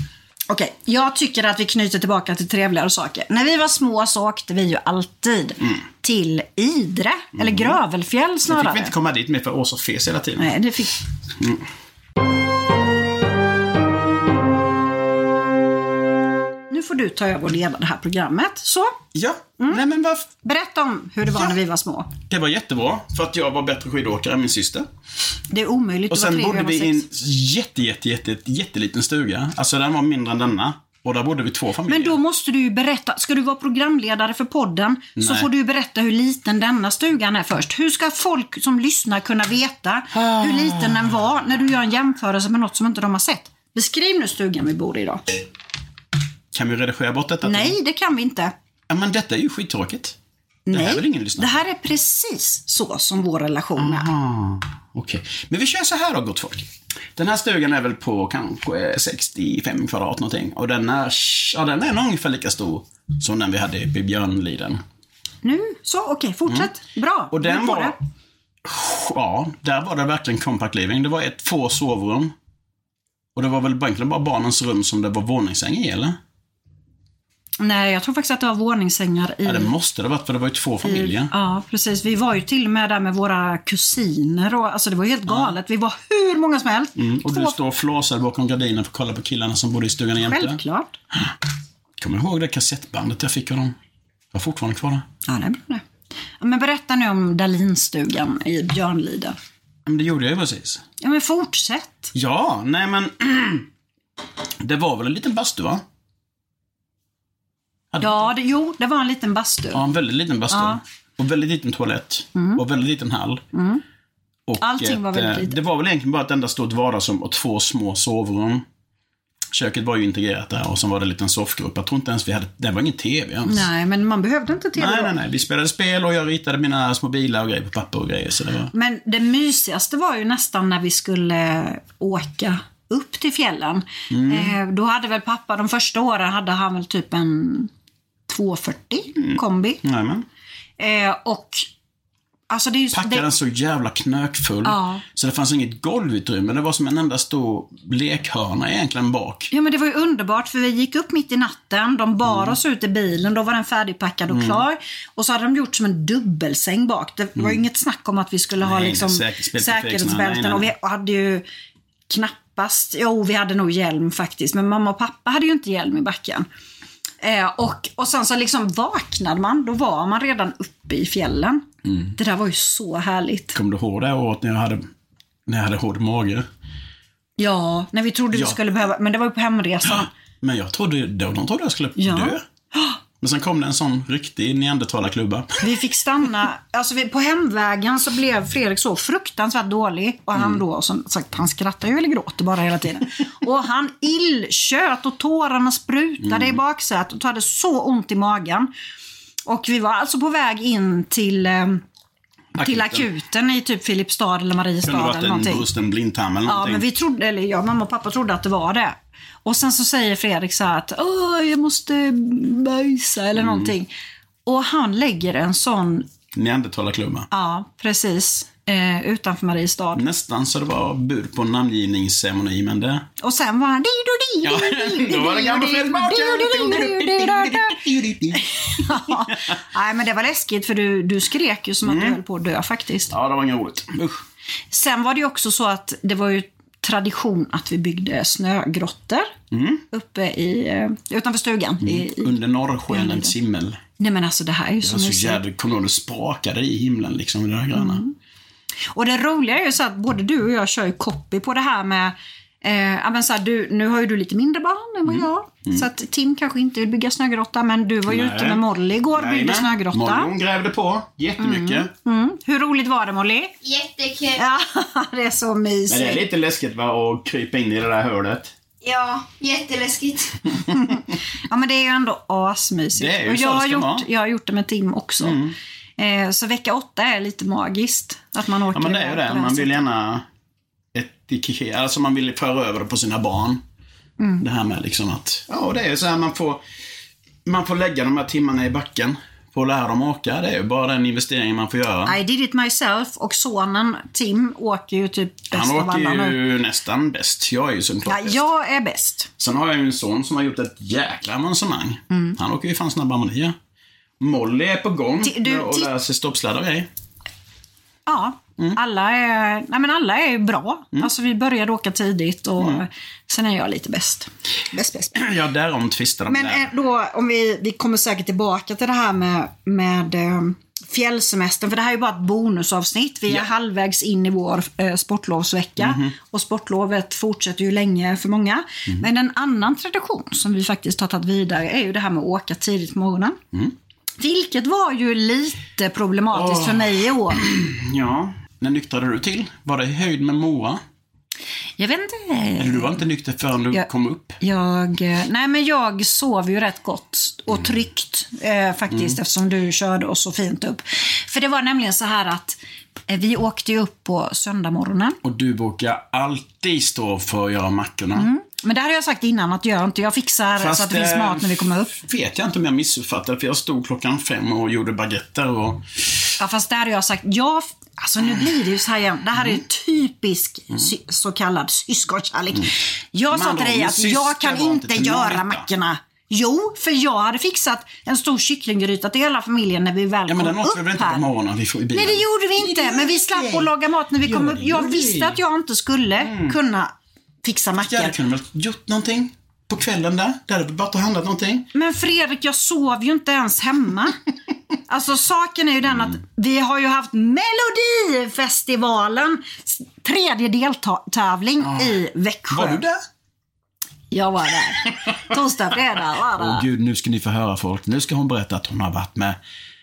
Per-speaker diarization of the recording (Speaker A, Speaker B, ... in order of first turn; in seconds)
Speaker A: 0.5-8.9, 10.4-10.9, 16.7-18.9, 20.4-22.1, 25.5-27.0, 31.9-45.2, 47.4-48.5, 50.7-54.1, 65.4-68.0, 77.6-79.7, 80.8-87.6, 90.2-90.9, 95.2-95.8, 96.4-99.3, 101.0-102.1, 108.0-109.8, 110.5-110.8, 112.3-112.6, 113.5-113.8, 114.6-115.6, 123.5-125.1, 128.7-137.7, 138.3-139.8, 140.8-141.7, 142.5-143.3, 144.6-145.0, 149.5-161.4, 162.1-166.5, 167.2-173.5, 177.4-180.1, 182.0-183.0, 185.6-198.7, 199.5-201.8, 202.6-205.7, 206.4-213.9, 214.4-216.1, 217.3-220.0, 223.2-233.1, 234.7-239.3, 239.9-242.3, 242.9-243.3, 244.0-245.4, 247.7-248.1, 248.9-260.3, 261.4-263.5, 264.4-266.2, 270.7-275.4, 276.0-279.8, 292.1-296.4, 298.1-299.3, 302.1-302.4, 305.2-305.9, 308.1-315.2, 316.3-333.4, 334.2-337.4, 341.8-343.0, 344.4-355.2, 358.1-361.9, 366.4-381.2, 381.9-386.9, 387.4-388.1, 391.7-394.1, 394.9-402.8, 404.1-406.6
Speaker B: 7.3-7.8, 8.5-10.6, 19.1-20.3, 22.3-24.9, 26.1-32.2, 35.2-35.5, 40.2-41.1, 46.5-47.8, 48.9-50.2, 50.7-51.6, 53.8-64.8, 67.3-68.0, 68.6-72.3, 73.3-76.2, 79.4-81.3, 85.3-85.5, 87.0-90.6, 92.0-93.7, 94.3-95.0, 99.8-100.8, 102.1-103.7, 104.6-105.8, 107.9-108.3, 109.7-113.4, 114.5-118.6, 119.5-123.7, 124.8-128.7, 134.1-134.6, 139.2-140.2, 142.9-149.5, 152.2-152.6, 154.3-154.6, 158.6-160.7, 171.8-172.1, 173.5-174.8, 175.5-176.5, 178.3-178.6, 179.8-182.4, 183.2-185.6, 196.2-196.6, 202.6-203.1, 204.8-206.8, 213.3-213.7, 216.3-217.3, 219.9-223.1, 224.4-229.2, 231.8-232.2, 233.1-234.2, 239.5-239.8, 241.8-243.8, 244.8-248.0, 255.1-255.8, 258.1-261.9, 265.9-268.5, 272.9-274.1, 275.2-275.5, 278.7-280.2, 280.9-283.6, 284.4-286.6, 287.4-292.2, 295.5-298.4, 299.4-303.6, 304.2-306.9, 315.1-316.7, 325.8-326.1, 336.3-340.8, 342.6-344.4, 355.2-358.3, 360.6-365.9, 373.3-375.7, 380.3-383.7, 384.2-385.4, 386.2-386.6, 387.8-391.7, 401.6-402.0, 402.5-403.0, 406.4-409.4
Speaker C: 263.6-264.4, 268.8-270.4